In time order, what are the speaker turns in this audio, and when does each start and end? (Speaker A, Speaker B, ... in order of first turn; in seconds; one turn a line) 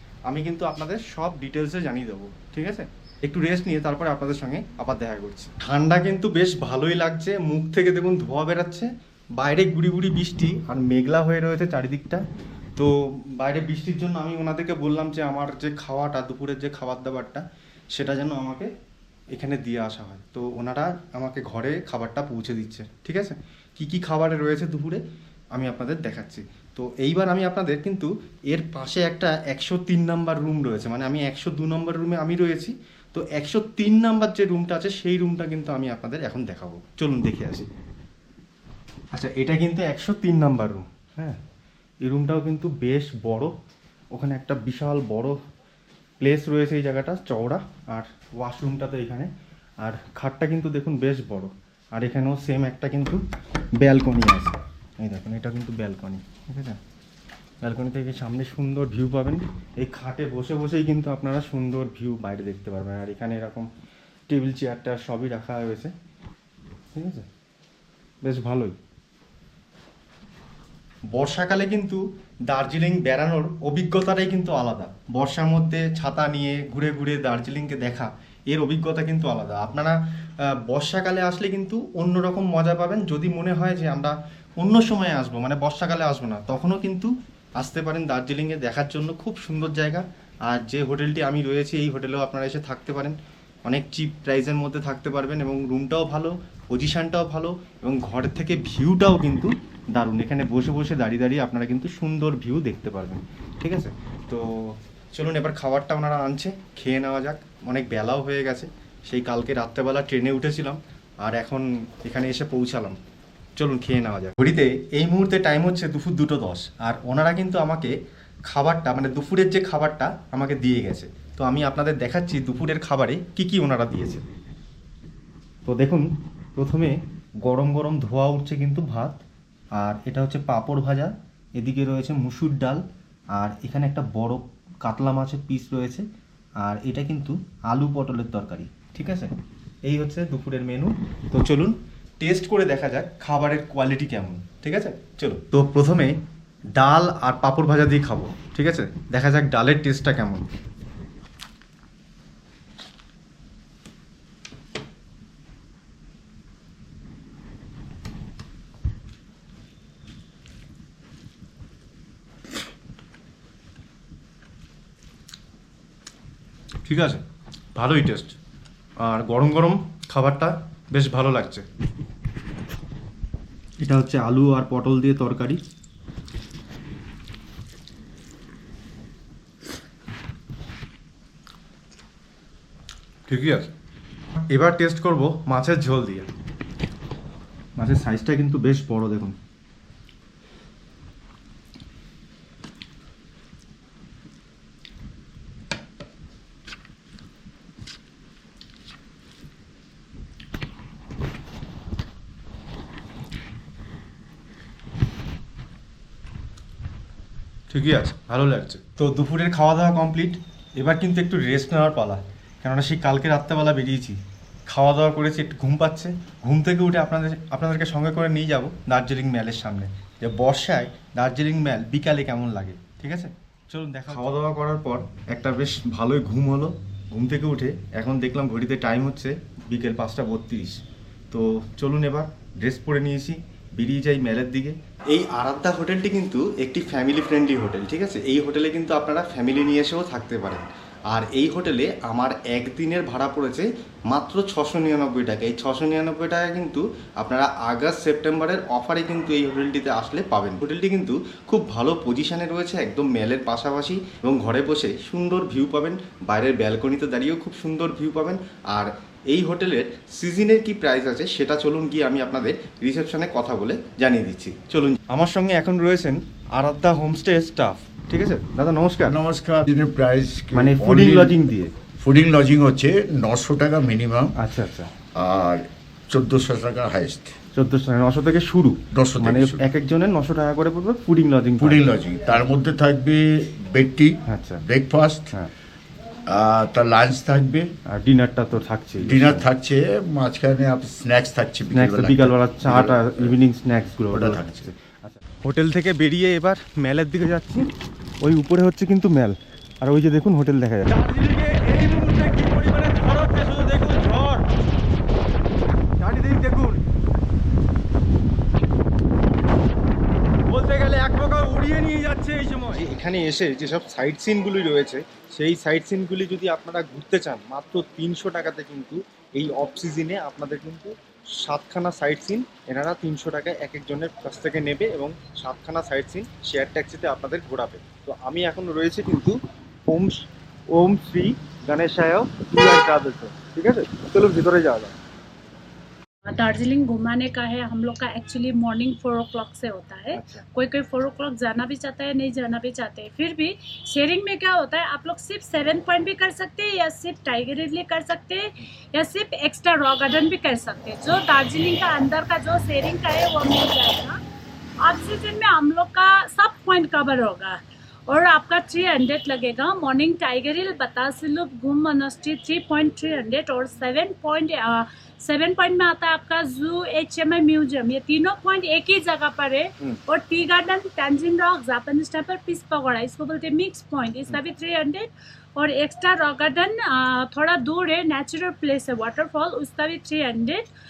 Speaker A: 0.3-12.2
Speaker A: 12.8-18.7
Speaker A: 19.3-37.7
Speaker A: 39.1-41.4
Speaker A: 42.0-43.5
Speaker A: 44.1-45.4
Speaker A: 46.2-53.2
Speaker A: 53.8-56.8
Speaker A: 57.6-63.7
Speaker A: 64.3-65.9
Speaker A: 67.0-67.3
Speaker A: 68.2-68.8
Speaker A: 71.1-113.0
Speaker A: 113.6-124.2
Speaker A: 125.7-129.2
Speaker A: 129.8-132.8
Speaker A: 133.3-136.1
Speaker A: 136.6-139.3
Speaker A: 139.9-146.2
Speaker A: 146.8-150.5
Speaker A: 166.8-167.2
Speaker A: 167.8-168.4
Speaker A: 169.0-171.7
Speaker A: 173.8-175.6
Speaker A: 183.3-183.7
Speaker A: 184.5-186.3
Speaker A: 187.8-189.4
Speaker A: 207.7-269.1
Speaker B: 269.1-271.4
Speaker A: 270.5-271.7
Speaker B: 272.0-274.3
Speaker A: 274.4-274.9
Speaker B: 275.1-277.4
Speaker A: 277.5-281.8
Speaker B: 278.9-279.7
Speaker B: 281.6-285.3
Speaker A: 284.3-284.6
Speaker B: 286.3-287.7
Speaker A: 287.9-289.5
Speaker B: 289.0-293.4
Speaker A: 291.7-297.7
Speaker B: 294.1-294.7
Speaker A: 298.2-304.5
Speaker A: 306.0-306.8
Speaker A: 310.5-329.4
Speaker A: 329.9-335.0
Speaker C: 336.2-354.2
Speaker A: 340.1-340.4
Speaker C: 354.8-380.6